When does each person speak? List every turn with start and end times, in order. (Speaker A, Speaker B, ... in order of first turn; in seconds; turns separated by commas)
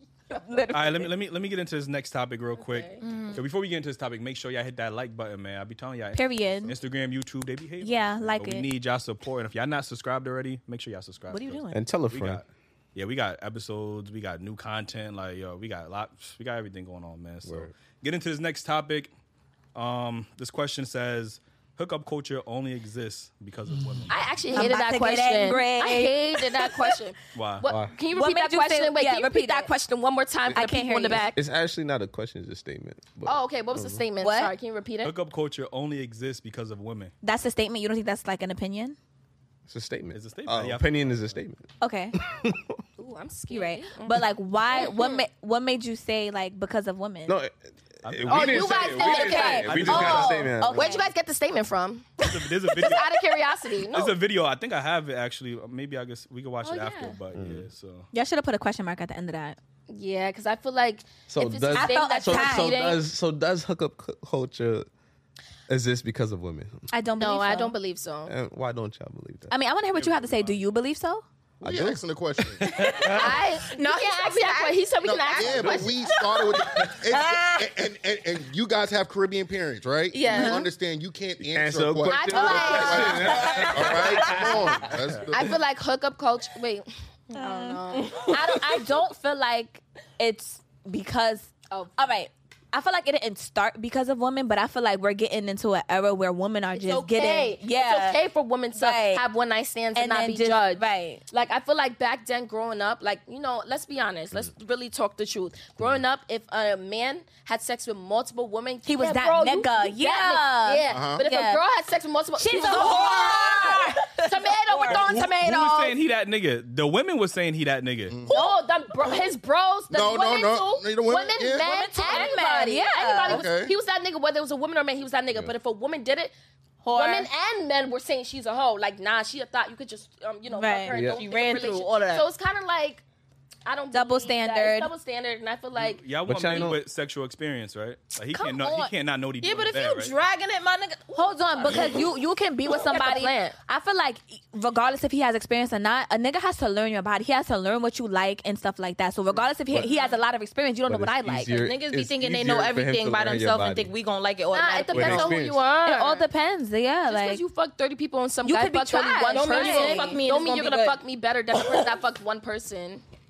Speaker A: 0.3-1.1, Speaker B: 0.7-19.1, Speaker C: 2.5-3.0, Speaker D: 3.0-3.4, Speaker A: 6.1-6.8, Speaker A: 7.8-8.7, Speaker A: 11.3-11.8, Speaker E: 11.7-12.4, Speaker E: 17.4-17.7, Speaker B: 19.7-24.2, Speaker C: 24.1-31.4, Speaker A: 24.5-26.9, Speaker B: 27.3-27.7, Speaker E: 27.6-27.9, Speaker A: 28.1-29.8, Speaker A: 30.5-31.2, Speaker E: 31.3-34.0, Speaker C: 33.2-35.1, Speaker A: 34.2-34.5, Speaker B: 35.0-37.1, Speaker A: 37.2-39.0, Speaker E: 39.7-41.6, Speaker B: 40.1-41.4, Speaker A: 41.8-42.1, Speaker E: 42.1-42.6, Speaker C: 43.0-44.1, Speaker A: 43.5-47.4, Speaker C: 44.7-45.2, Speaker E: 47.3-51.1, Speaker B: 48.0-50.5, Speaker C: 48.3-54.2, Speaker A: 48.9-51.0, Speaker B: 52.2-53.2, Speaker B: 53.9-58.0, Speaker C: 56.6-57.2, Speaker E: 57.3-57.7, Speaker A: 58.1-59.6, Speaker C: 59.9-63.0, Speaker E: 61.3-64.9, Speaker A: 61.7-62.7, Speaker E: 65.7-66.8, Speaker A: 66.9-67.7, Speaker C: 67.2-68.3, Speaker E: 68.3-69.5, Speaker A: 69.5-71.2, Speaker E: 71.6-72.5, Speaker F: 71.6-72.7, Speaker B: 72.8-73.3, Speaker C: 72.9-76.2, Speaker D: 73.2-74.9, Speaker F: 75.0-85.5, Speaker E: 75.3-75.9, Speaker A: 77.1-77.7, Speaker D: 80.1-80.7, Speaker A: 80.3-80.6, Speaker E: 81.4-84.8, Speaker C: 82.1-83.7, Speaker A: 82.5-84.5, Speaker C: 85.3-88.6, Speaker A: 87.3-98.2, Speaker D: 87.9-88.6, Speaker C: 91.7-92.1, Speaker C: 96.7-116.0, Speaker A: 98.7-99.2, Speaker A: 99.9-101.2, Speaker A: 108.8-111.6, Speaker F: 110.8-111.2, Speaker A: 112.4-115.2, Speaker B: 114.9-118.1, Speaker F: 118.1-118.4, Speaker C: 118.3-126.3, Speaker F: 119.9-122.2, Speaker A: 121.6-123.4, Speaker F: 123.2-123.7, Speaker A: 126.8-127.3, Speaker C: 126.9-133.0, Speaker A: 130.5-130.9, Speaker E: 130.9-131.2, Speaker D: 130.9-132.3, Speaker C: 133.7-136.0, Speaker A: 133.9-134.9, Speaker B: 135.8-140.1, Speaker E: 136.2-136.8, Speaker A: 138.3-138.9, Speaker D: 139.4-141.9, Speaker A: 141.1-151.6, Speaker C: 142.7-143.6, Speaker E: 150.8-153.9, Speaker D: 151.5-155.4, Speaker C: 154.5-156.3, Speaker E: 154.9-155.6, Speaker A: 155.8-157.4, Speaker C: 157.1-163.0, Speaker A: 158.4-160.2, Speaker D: 159.3-161.0